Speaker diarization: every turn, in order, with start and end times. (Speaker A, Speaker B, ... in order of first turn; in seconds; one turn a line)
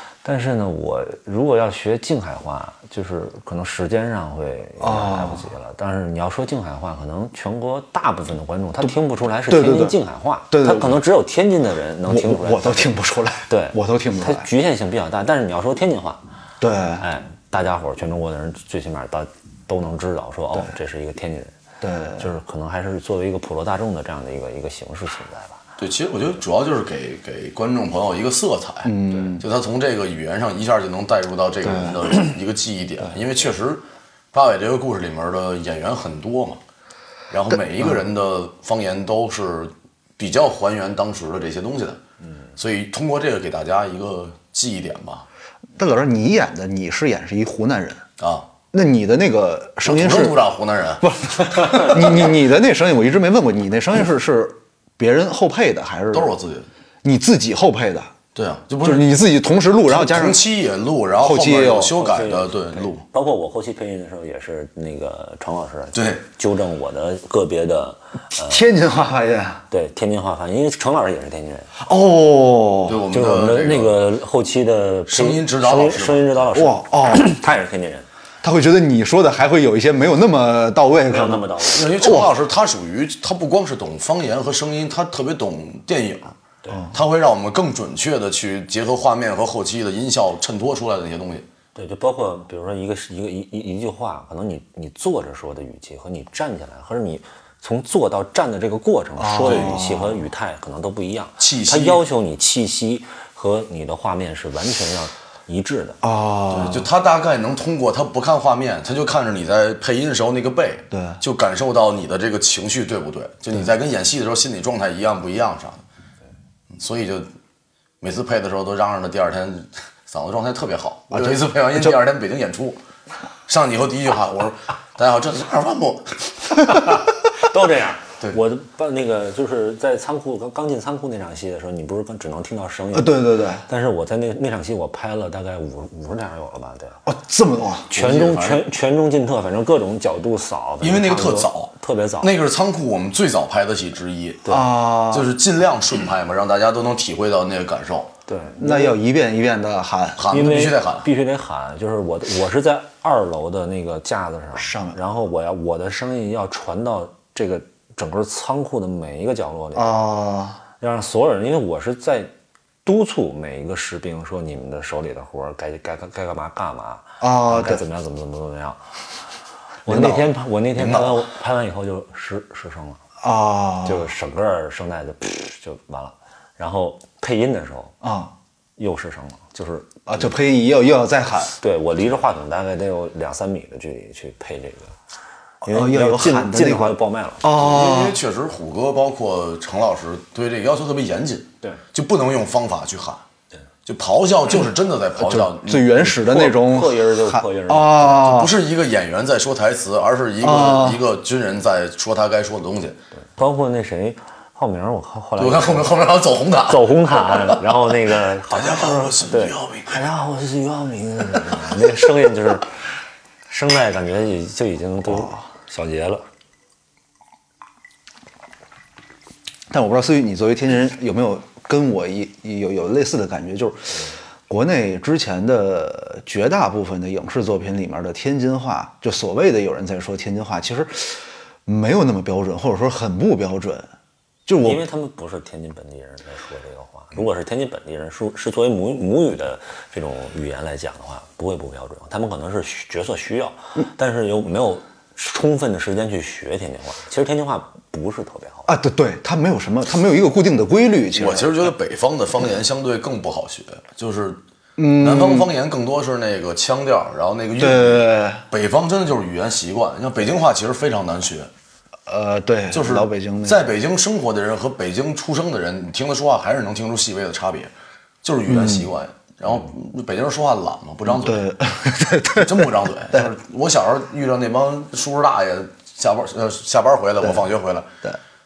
Speaker A: 0.2-12.9
Speaker B: 4.8-5.5
Speaker B: 9.5-10.0
Speaker B: 10.5-11.0
Speaker B: 12.1-14.5
Speaker A: 13.5-16.2
Speaker B: 16.6-17.1
Speaker A: 17.0-21.6
Speaker B: 21.8-22.3
Speaker A: 22.2-25.6
Speaker C: 25.8-36.6
Speaker B: 28.8-29.5
Speaker B: 31.6-32.2
Speaker C: 37.3-42.0
Speaker C: 42.6-45.3
Speaker B: 45.8-48.1
Speaker C: 48.2-48.5
Speaker B: 48.7-50.4
Speaker C: 49.9-52.4
Speaker B: 51.0-56.3
Speaker C: 56.1-56.7
Speaker B: 57.0-58.1
Speaker C: 58.4-59.1
Speaker B: 58.8-60.4
Speaker C: 59.9-63.0
Speaker B: 61.2-62.0
Speaker A: 62.0-68.7
Speaker C: 65.9-66.2
Speaker B: 68.4-69.6
Speaker A: 69.7-71.7
Speaker B: 71.8-73.0
Speaker C: 72.8-74.0
Speaker A: 73.1-78.1
Speaker C: 75.1-76.3
Speaker B: 76.5-77.4
Speaker B: 78.4-82.3
Speaker A: 81.1-82.0
Speaker C: 81.7-86.3
Speaker A: 86.6-86.9
Speaker C: 86.9-91.5
Speaker A: 91.8-106.0
Speaker B: 99.2-100.3
Speaker C: 99.4-99.8
Speaker C: 101.4-102.0
Speaker B: 106.0-106.9
Speaker C: 106.5-115.8
Speaker B: 110.9-111.2
Speaker C: 116.7-117.3
Speaker C: 118.0-122.8
Speaker B: 121.1-121.9
Speaker C: 123.5-126.8
Speaker A: 126.7-137.0
Speaker B: 132.9-133.6
Speaker B: 137.1-137.9
Speaker A: 137.9-142.3
Speaker C: 137.9-138.7
Speaker C: 140.8-148.1
Speaker B: 144.5-145.3
Speaker A: 148.3-148.9
Speaker B: 148.6-150.3
Speaker C: 150.2-151.1
Speaker A: 150.3-160.1
Speaker B: 154.6-155.0
Speaker B: 159.8-160.6
Speaker A: 160.8-162.3
Speaker A: 162.8-169.0
Speaker B: 167.2-167.8
Speaker A: 169.8-173.0
Speaker B: 169.9-170.3
Speaker C: 170.8-171.1
Speaker B: 173.2-174.1
Speaker A: 173.8-177.9
Speaker B: 178.0-178.3
Speaker A: 178.8-180.3
Speaker B: 180.1-181.6
Speaker A: 181.6-185.0
Speaker B: 185.6-188.2
Speaker A: 185.6-187.6
Speaker C: 187.5-193.2
Speaker C: 193.9-196.1
Speaker B: 195.2-198.6
Speaker A: 196.1-198.2
Speaker C: 198.1-203.0
Speaker B: 200.4-201.0
Speaker A: 203.4-206.2
Speaker C: 205.4-207.6
Speaker A: 206.7-212.8
Speaker C: 208.5-210.0
Speaker A: 213.5-216.2
Speaker B: 215.1-215.4
Speaker B: 219.7-233.9
Speaker B: 234.5-234.8
Speaker A: 234.6-248.7
Speaker B: 248.7-251.7
Speaker C: 251.2-254.4
Speaker B: 254.8-255.5
Speaker C: 254.9-261.5
Speaker B: 257.6-258.4
Speaker B: 262.1-263.7
Speaker C: 262.7-267.7
Speaker C: 268.2-271.6
Speaker B: 268.5-268.9
Speaker B: 271.1-273.3
Speaker C: 272.2-277.9